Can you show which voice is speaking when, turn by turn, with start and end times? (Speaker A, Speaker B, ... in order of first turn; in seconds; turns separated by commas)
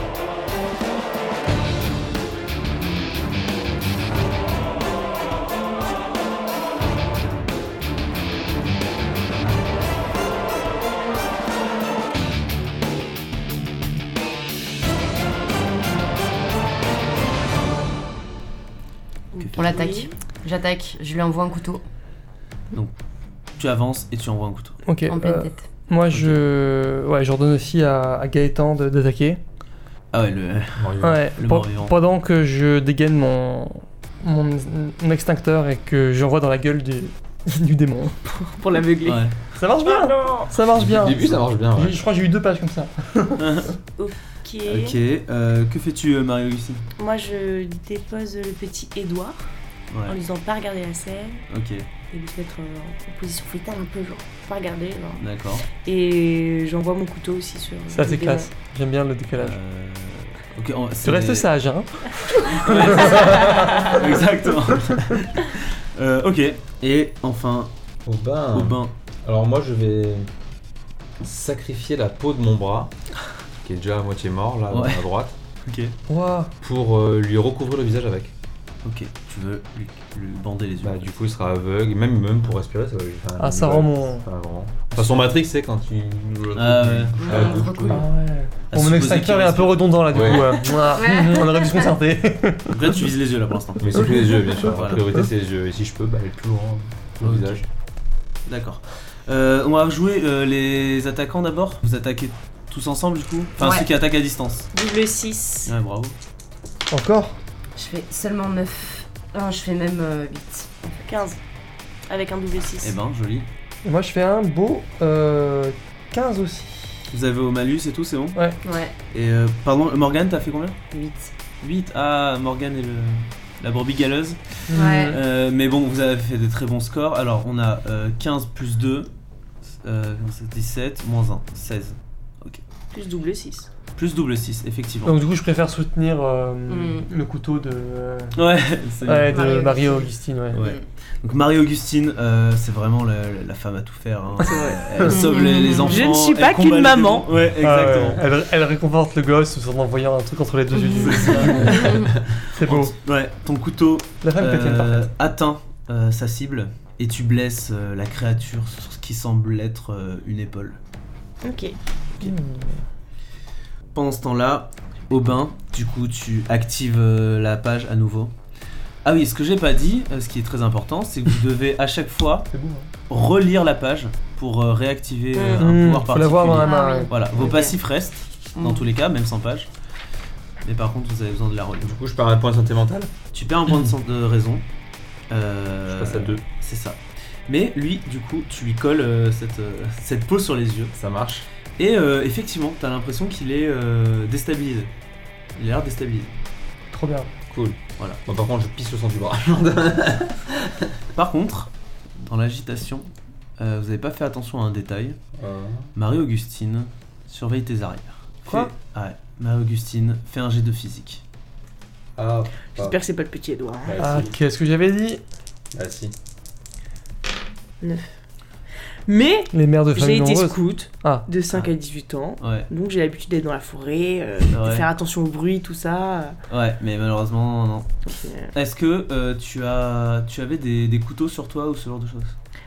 Speaker A: 19.4-20.1, Speaker B: 19.4-19.7, Speaker C: 19.6-21.8, Speaker B: 23.6-24.8, Speaker D: 24.9-29.4, Speaker C: 25.1-25.7, Speaker B: 26.1-26.4, Speaker B: 30.1-31.9, Speaker E: 30.8-31.2, Speaker D: 31.0-38.2, Speaker A: 38.2-39.3, Speaker B: 39.0-39.4, Speaker D: 39.6-43.6, Speaker A: 39.8-40.5, Speaker E: 40.8-42.0, Speaker B: 41.1-41.4, Speaker B: 43.4-43.8, Speaker A: 44.0-45.0, Speaker B: 44.7-46.8, Speaker A: 47.0-49.4, Speaker B: 49.9-50.2, Speaker A: 50.1-51.4, Speaker B: 51.5-51.9, Speaker A: 52.1-58.5, Speaker B: 55.2-55.6, Speaker D: 57.9-59.6, Speaker B: 59.4-61.5, Speaker D: 61.0-63.9, Speaker B: 62.5-67.7, Speaker D: 64.7-65.0, Speaker E: 68.1-70.3, Speaker B: 68.5-68.9, Speaker E: 71.2-72.9, Speaker E: 73.6-75.4, Speaker B: 74.7-75.1, Speaker B: 75.6-76.0, Speaker D: 76.1-76.5, Speaker E: 76.6-78.3, Speaker B: 78.8-81.2, Speaker E: 80.8-88.1, Speaker D: 83.4-84.3, Speaker B: 84.9-85.3, Speaker B: 86.5-87.7, Speaker C: 87.2-88.1, Speaker D: 87.9-93.0, Speaker B: 88.7-89.9, Speaker E: 90.1-90.6, Speaker C: 90.7-92.0, Speaker B: 92.7-94.1, Speaker E: 93.8-97.7, Speaker D: 94.0-94.6, Speaker B: 94.7-95.0, Speaker B: 97.2-97.7, Speaker B: 98.5-104.7, Speaker C: 103.6-103.9, Speaker A: 104.7-105.8, Speaker B: 105.7-106.2, Speaker D: 106.9-107.4, Speaker C: 107.8-111.3, Speaker A: 111.1-111.4, Speaker A: 112.1-113.0, Speaker B: 112.8-113.5, Speaker D: 113.8-117.0, Speaker B: 117.1-118.4, Speaker C: 118.6-118.9, Speaker B: 119.1-120.8, Speaker C: 120.9-121.3, Speaker B: 121.6-129.1, Speaker D: 124.7-125.2, Speaker C: 124.7-125.2, Speaker B: 129.8-132.6, Speaker A: 132.9-133.7, Speaker B: 134.0-135.3, Speaker D: 135.0-138.4, Speaker C: 136.7-137.1, Speaker B: 138.3-139.4, Speaker D: 139.0-140.6, Speaker C: 139.3-140.8, Speaker B: 140.5-148.2, Speaker A: 144.4-144.8, Speaker D: 144.9-145.2, Speaker C: 145.0-146.2, Speaker A: 145.3-147.3, Speaker D: 147.6-151.8, Speaker C: 150.8-152.1, Speaker B: 151.0-160.8, Speaker E: 151.6-152.2, Speaker D: 152.5-152.9, Speaker D: 154.2-155.1, Speaker A: 161.4-161.8, Speaker D: 162.2-162.8, Speaker B: 163.9-168.3, Speaker B: 169.0-172.5, Speaker D: 172.5-172.9, Speaker B: 173.1-179.7, Speaker A: 175.3-175.7, Speaker D: 175.6-177.1, Speaker C: 176.6-177.7, Speaker A: 177.4-177.7, Speaker C: 178.6-178.9, Speaker B: 180.6-182.0, Speaker E: 181.8-183.1, Speaker B: 183.3-184.7, Speaker B: 185.3-190.9, Speaker E: 185.8-186.4, Speaker E: 190.9-191.5, Speaker B: 191.8-194.9, Speaker B: 195.6-196.3, Speaker D: 196.9-197.3, Speaker E: 197.5-200.9, Speaker B: 201.2-205.2, Speaker E: 205.3-205.9, Speaker B: 205.9-211.2, Speaker D: 208.5-208.7, Speaker E: 212.2-213.0, Speaker A: 212.8-214.0, Speaker E: 213.8-214.4, Speaker D: 214.0-215.2, Speaker E: 215.7-216.1, Speaker A: 217.8-218.1, Speaker A: 219.1-226.4, Speaker D: 219.5-221.3, Speaker B: 222.4-222.7, Speaker B: 224.5-224.9, Speaker B: 226.5-227.9, Speaker A: 228.1-228.5, Speaker B: 228.5-232.3